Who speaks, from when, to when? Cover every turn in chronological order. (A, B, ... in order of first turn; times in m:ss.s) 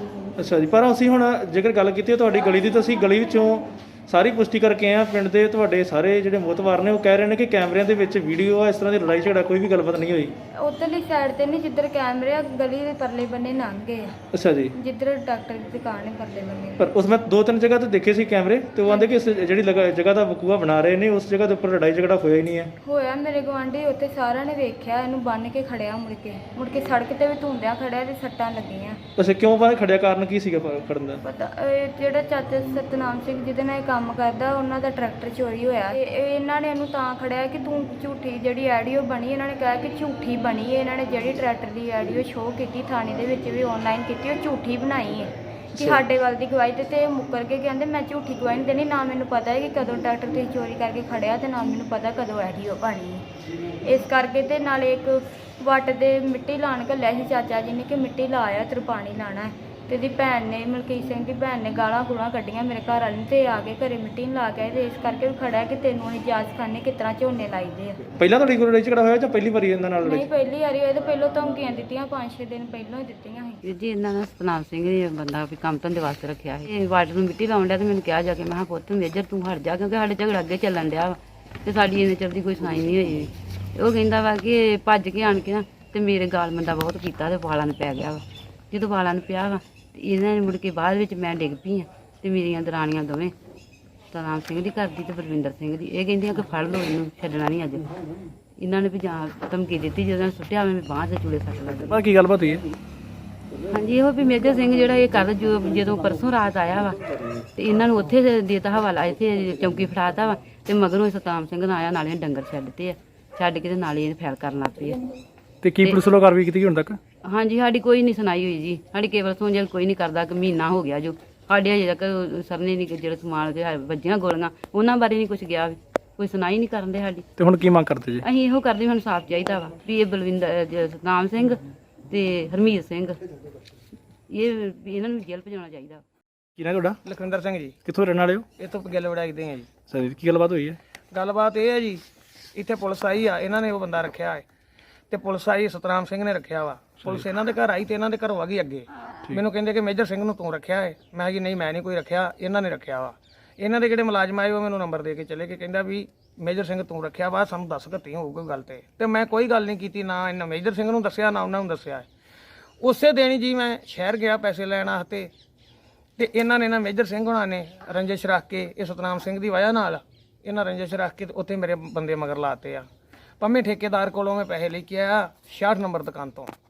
0:00.4-0:10.4 A
0:10.6-0:14.1 B
0:14.3-0:14.7 A
0:14.8-0:16.8 B
0:16.8-0:22.7 A
0:22.8-0:29.0 B
0:29.2-0:31.2 A
0:31.2-0:53.2 B
0:53.8-1:08.0 B
1:08.2-1:10.2 A
1:10.0-1:13.6 B
1:13.6-1:33.3 C
1:34.1-1:37.9 C
1:38.6-1:41.9 C
1:41.9-1:42.6 A
1:43.7-1:47.0 C
1:47.6-1:55.0 C
1:55.6-1:57.0 A
1:57.2-2:07.3 C
2:07.4-2:08.3 A
2:08.2-2:13.2 C
2:14.3-2:16.0 C
2:16.6-2:17.0 A
2:17.0-2:17.8 D
2:17.9-2:18.5 A
2:18.6-2:19.7 D
2:19.9-2:20.8 A
2:21.1-2:22.0 D
2:22.6-2:24.4 D
2:25.1-2:42.1 D
2:42.8-2:45.3 D
2:46.2-2:52.9 D
2:53.4-2:56.5 D